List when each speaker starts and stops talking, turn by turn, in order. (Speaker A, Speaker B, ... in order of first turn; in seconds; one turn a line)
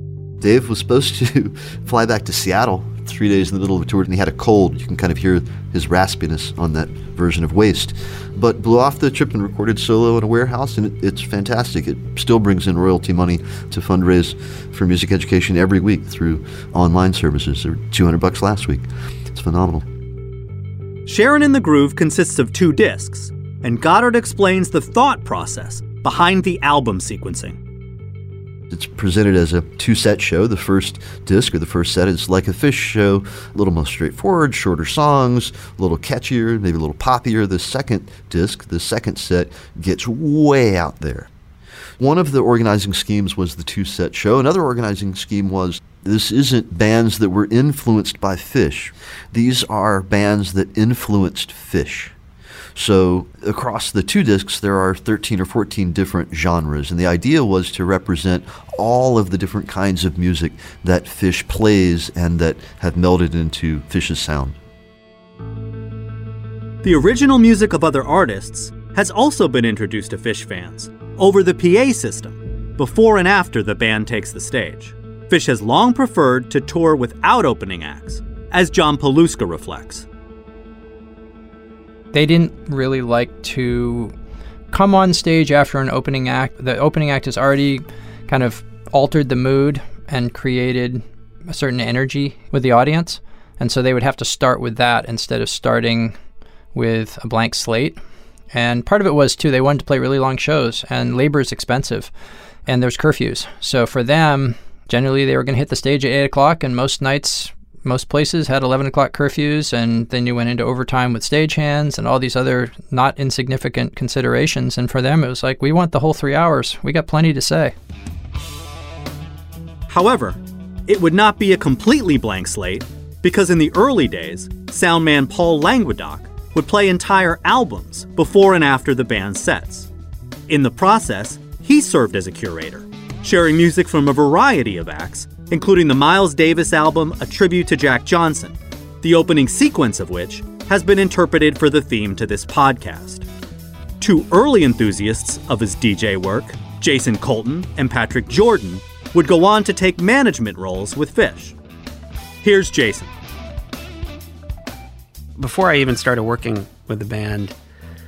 Speaker A: 0.4-19.9
Speaker B: 21.1-27.6
Speaker A: 28.7-41.3
Speaker A: 42.0-52.1
Speaker A: 52.8-64.6
Speaker B: 66.8-80.1
Speaker C: 82.1-84.1
Speaker C: 84.7-96.2
Speaker C: 96.7-98.0
Speaker C: 98.5-102.1
Speaker C: 102.7-117.8
Speaker B: 119.9-129.9
Speaker B: 130.5-143.3
Speaker B: 144.0-151.6
Speaker B: 152.4-153.1
Speaker D: 155.4-157.6